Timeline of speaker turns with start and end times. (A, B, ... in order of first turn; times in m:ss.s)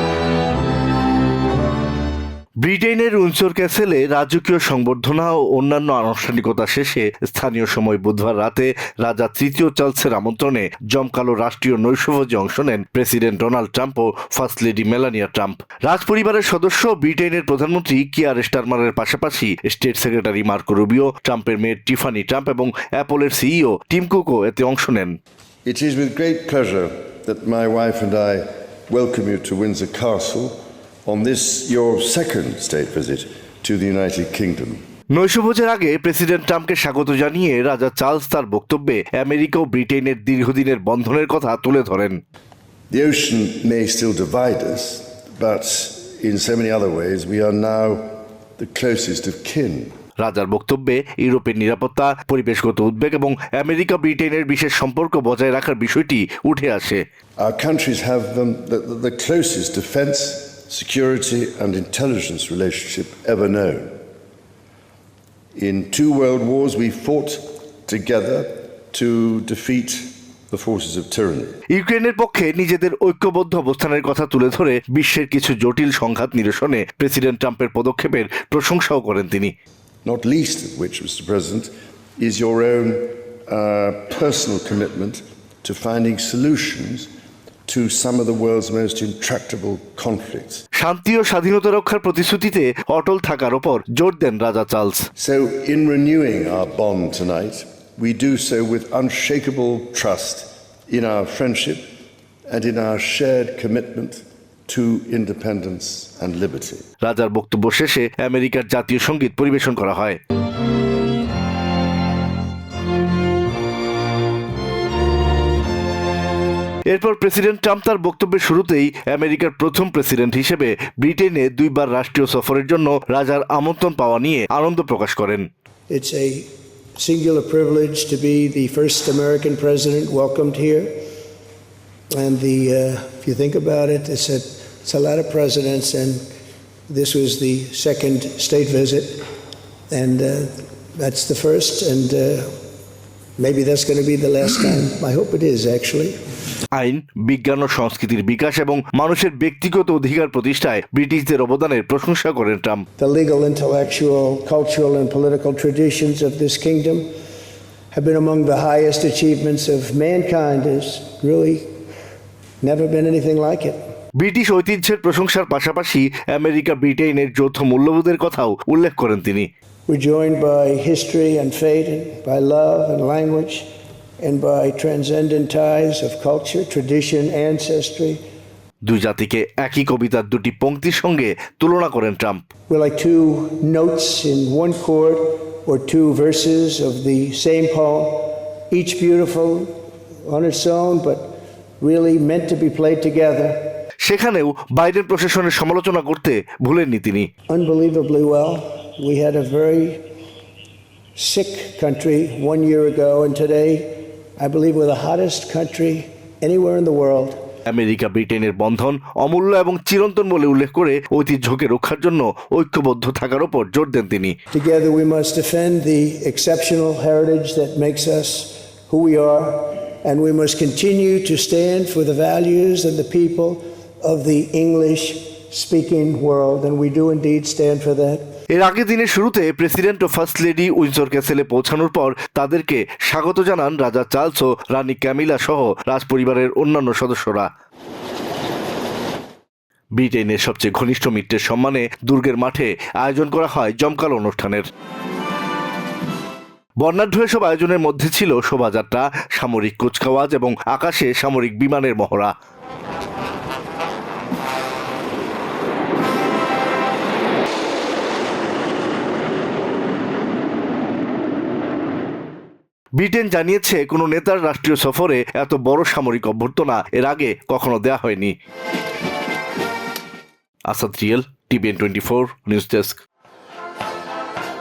0:02.6-0:25.2 A
0:25.6-0:34.8 B
0:35.1-0:42.2 A
0:42.9-0:50.0 B
0:50.2-0:57.0 A
0:57.4-1:04.0 B
1:05.6-1:11.6 B
1:11.7-1:19.5 A
1:20.0-1:27.1 B
1:27.7-1:30.6 B
1:30.8-1:35.1 A
1:35.2-1:41.8 B
1:42.5-1:46.9 B
1:47.0-1:50.2 A
1:56.9-2:05.5 A
2:05.9-2:11.0 C
2:12.1-2:16.2 C
2:16.9-2:19.2 C
2:19.9-2:22.6 C
2:23.4-2:26.2 C
2:26.7-2:32.8 A
2:33.0-2:37.1 C
2:37.9-2:41.6 C
2:42.6-2:43.8 C
2:44.1-2:49.5 A
2:49.9-2:53.7 C
2:54.2-2:58.2 C
2:58.8-3:02.4 A
3:02.7-3:13.8 C
3:14.0-3:17.3 A
3:17.5-3:20.0 C
3:21.2-3:27.4 C
3:27.7-3:34.3 A
3:34.5-3:48.2 C
3:48.5-3:57.5 A
4:00.0-4:04.7 A
4:06.8-4:12.3 A
4:23.0-4:28.3 A
4:30.7-4:33.0 A